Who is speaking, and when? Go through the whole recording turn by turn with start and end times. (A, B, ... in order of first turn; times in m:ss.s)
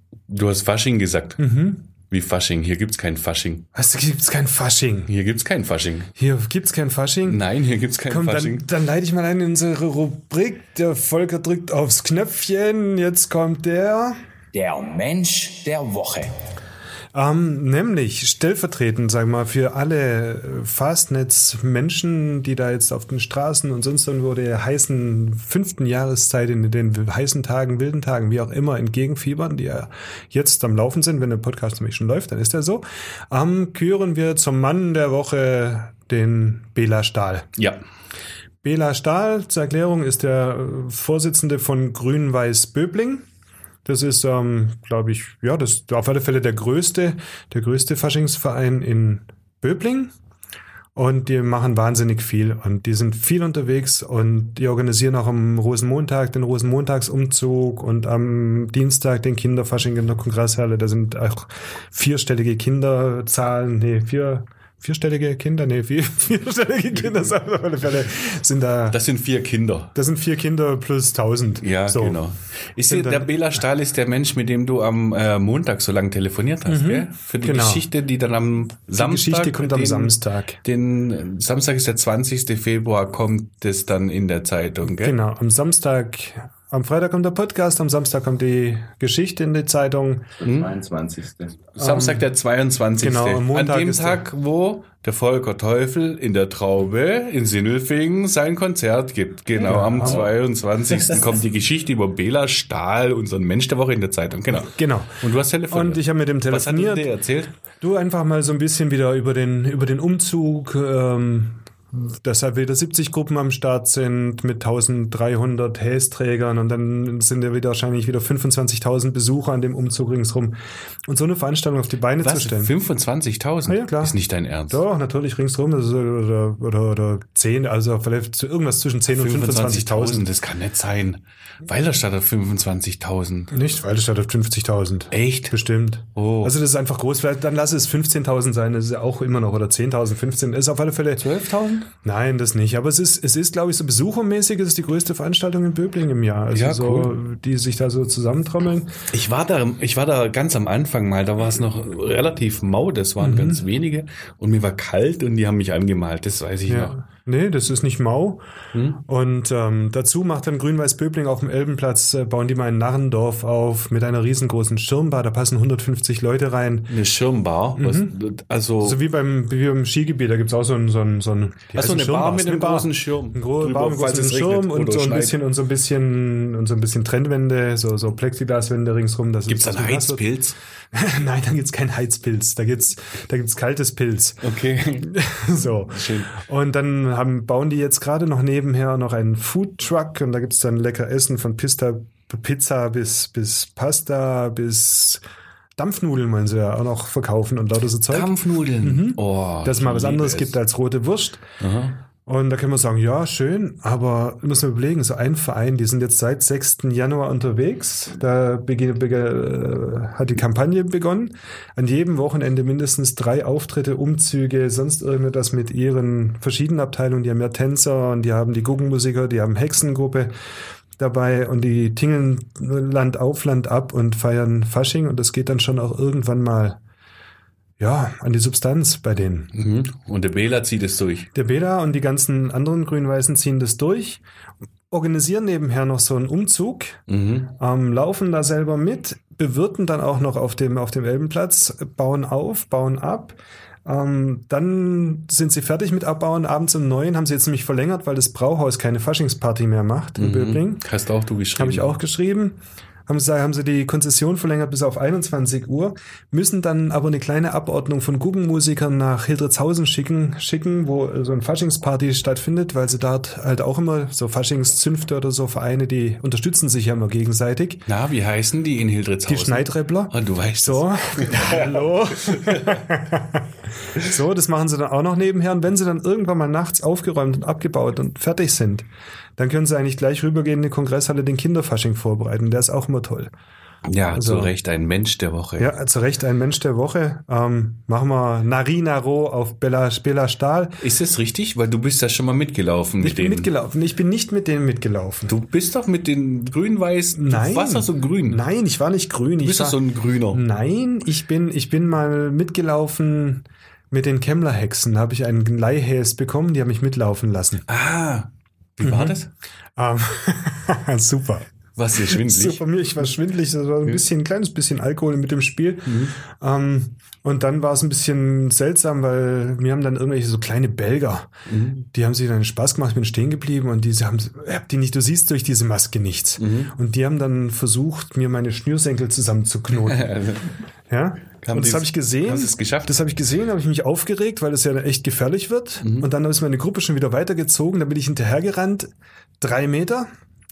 0:00.3-0:01.4 A
0:01.4-0:01.8 B
0:02.1-0:03.7 A
0:03.7-0:05.1 B
0:05.1-0:06.1 A
0:06.2-0:07.4 B
0:07.3-0:08.7 A
0:08.1-0:14.2 B
0:14.5-0:16.4 C
0:17.1-0:37.5 B
0:38.6-0:43.2 B
0:43.8-0:50.1 B
0:51.0-1:09.0 B
1:08.9-1:09.9 A
1:10.0-1:12.2 B
1:11.6-1:25.2 A
1:12.9-1:13.3 B
1:16.7-1:17.9 B
1:19.0-1:20.6 B
1:24.9-1:30.3 B
1:30.4-1:31.6 C
1:30.4-1:30.7 A
1:31.7-1:47.6 A
1:31.8-1:32.3 B
1:33.0-1:34.2 B
1:39.6-1:40.3 B
1:44.5-1:47.1 B
1:47.8-2:02.7 B
2:02.2-2:04.8 A
2:03.7-2:04.2 B
2:04.7-2:10.2 B
2:09.1-2:13.5 A
2:13.5-2:21.2 B
2:15.1-2:15.6 A
2:16.2-2:16.5 A
2:21.2-2:21.9 A
2:22.0-2:29.0 B
2:26.5-2:27.1 A
2:29.1-2:37.0 A
2:33.2-2:33.6 B
2:36.7-2:38.4 B
2:38.7-2:39.0 A
2:39.0-2:46.9 B
2:46.9-2:49.0 A
2:47.8-2:48.1 B
2:48.8-3:00.2 B
2:51.7-2:55.4 A
2:59.5-3:00.6 A
3:00.9-3:04.4 B
3:04.4-3:05.1 A
3:05.0-3:15.2 B
3:05.9-3:06.4 A
3:15.8-3:21.4 B
3:18.1-3:20.6 A
3:21.6-3:22.0 A
3:22.3-3:40.3 B
3:41.0-3:46.8 B
3:47.8-3:49.5 B
3:49.5-3:51.3 A
3:51.3-3:54.2 B
3:54.9-4:10.8 B
3:57.1-3:57.5 A
4:10.2-4:12.0 A
4:11.6-4:27.8 B
4:27.9-4:32.9 A
4:29.3-4:43.3 B
4:43.9-4:45.7 A
4:44.1-4:44.5 B
4:45.6-4:50.8 B
4:50.8-4:53.5 A
4:53.0-4:55.3 B
4:55.3-4:58.4 A
4:57.1-4:59.8 B
4:59.4-5:00.4 A
5:00.3-5:07.6 B
5:07.7-5:09.3 A
5:08.8-5:09.2 B
5:09.8-5:21.3 B
5:11.8-5:12.6 A
5:15.9-5:16.2 A
5:21.5-5:21.9 A
5:21.9-5:30.1 B
5:26.4-5:26.8 A
5:29.8-5:30.6 A
5:30.9-5:38.9 B
5:31.4-5:32.9 A
5:35.8-5:36.1 A
5:39.4-5:40.1 B